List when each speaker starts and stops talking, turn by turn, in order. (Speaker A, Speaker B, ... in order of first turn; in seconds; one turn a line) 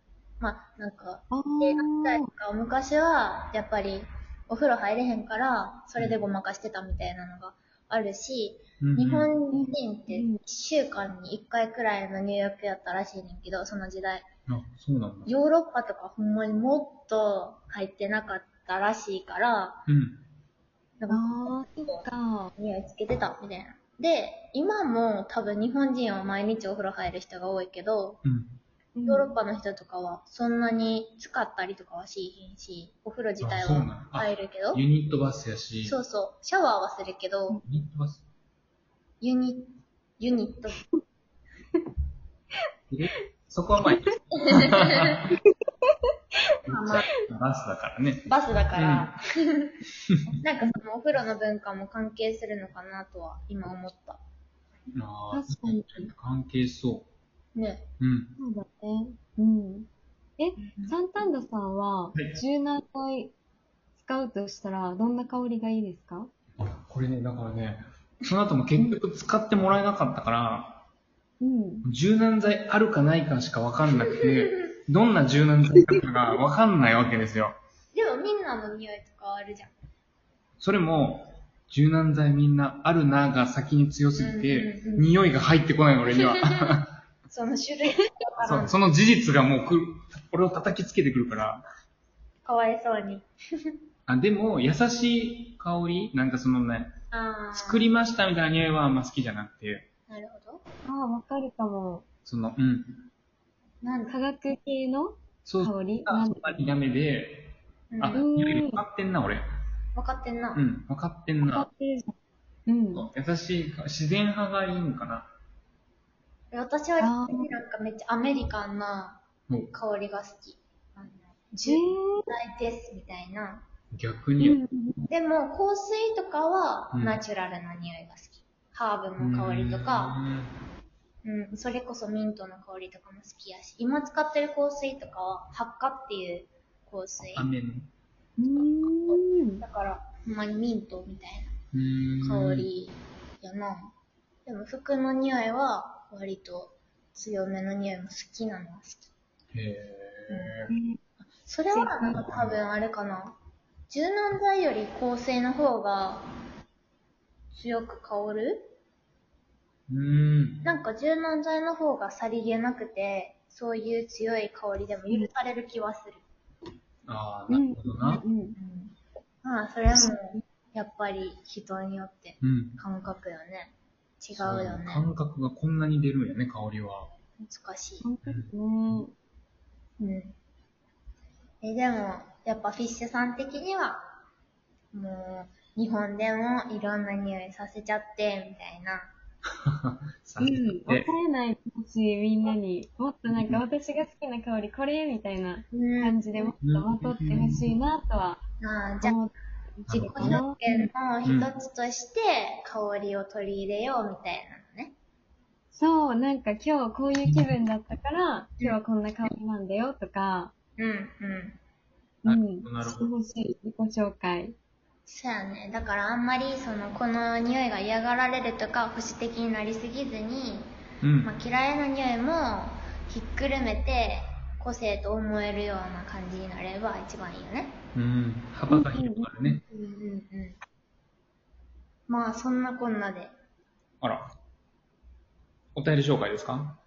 Speaker A: 0.4-14.3
Speaker B: 1.3-2.3
Speaker C: 8.8-9.3
Speaker B: 9.5-10.4
Speaker C: 14.5-15.3
Speaker A: 15.2-19.9
Speaker C: 19.9-20.2
Speaker A: 21.0-28.2
Speaker B: 21.1-22.5
Speaker C: 28.2-28.6
Speaker B: 28.9-29.3
Speaker A: 29.1-34.8
Speaker C: 33.4-36.0
Speaker A: 35.8-37.6
Speaker C: 37.6-38.2
Speaker A: 39.2-40.8
Speaker C: 42.9-45.3
Speaker A: 44.5-45.2
Speaker C: 46.6-49.1
Speaker A: 46.7-47.1
Speaker A: 48.3-49.7
Speaker A: 50.4-54.2
Speaker C: 54.9-57.1
Speaker B: 55.3-56.1
Speaker A: 57.5-57.9
Speaker C: 58.0-58.3
Speaker B: 58.4-59.9
Speaker B: 60.4-63.3
Speaker B: 64.0-66.3
Speaker C: 66.6-70.8
Speaker B: 71.4-71.8
Speaker C: 71.8-77.5
Speaker B: 75.8-76.0
Speaker A: 77.9-79.7
Speaker C: 80.6-86.9
Speaker A: 84.2-85.1
Speaker A: 86.0-88.8
Speaker C: 88.4-91.7
Speaker A: 92.4-93.7
Speaker C: 94.1-96.9
Speaker A: 97.1-97.9
Speaker C: 97.5-99.9
Speaker A: 100.1-100.6
Speaker B: 100.8-102.0
Speaker C: 102.2-103.1
Speaker A: 103.8-104.2
Speaker B: 104.1-106.7
Speaker C: 105.4-109.4
Speaker A: 107.9-108.2
Speaker B: 108.1-108.8
Speaker A: 109.9-110.6
Speaker C: 110.5-111.7
Speaker B: 111.4-112.1
Speaker B: 112.7-113.1
Speaker C: 112.9-115.3
Speaker A: 116.5-123.6
Speaker B: 117.0-117.5
Speaker B: 121.7-122.3
Speaker C: 123.9-124.6
Speaker B: 124.4-125.1
Speaker A: 125.1-130.1
Speaker C: 126.9-127.2
Speaker C: 129.2-130.6
Speaker A: 131.2-137.5
Speaker C: 137.3-137.9
Speaker B: 138.4-139.6
Speaker A: 138.5-141.5
Speaker C: 141.7-142.7
Speaker A: 142.2-143.9
Speaker A: 144.4-149.1
Speaker C: 149.5-150.7
Speaker A: 150.3-150.6
Speaker B: 150.7-151.0
Speaker A: 151.2-153.3
Speaker B: 151.7-152.2
Speaker C: 152.1-152.6
Speaker A: 153.9-156.3
Speaker A: 157.5-158.7
Speaker C: 159.9-160.6
Speaker A: 160.6-166.2
Speaker C: 167.1-168.2
Speaker B: 167.5-168.6
Speaker A: 168.6-175.1
Speaker C: 172.4-172.8
Speaker C: 174.3-177.1
Speaker A: 177.4-178.1
Speaker B: 178.0-179.1
Speaker C: 178.2-178.5
Speaker A: 180.0-180.3
Speaker A: 181.6-184.1
Speaker A: 184.9-189.1
Speaker C: 189.7-191.1
Speaker B: 190.4-198.4
Speaker C: 193.3-193.6
Speaker A: 195.7-196.5
Speaker C: 196.6-197.7
Speaker A: 198.6-199.2
Speaker B: 199.0-200.9
Speaker C: 199.9-200.4
Speaker A: 199.9-204.9
Speaker C: 201.2-201.5
Speaker B: 205.7-210.5
Speaker A: 210.8-211.6
Speaker B: 212.2-214.6
Speaker C: 212.2-213.1
Speaker A: 215.1-227.8
Speaker C: 221.0-221.3
Speaker C: 227.9-229.6
Speaker B: 228.7-229.6
Speaker A: 229.7-230.6
Speaker A: 232.1-233.3
Speaker C: 234.0-234.3
Speaker C: 235.7-236.8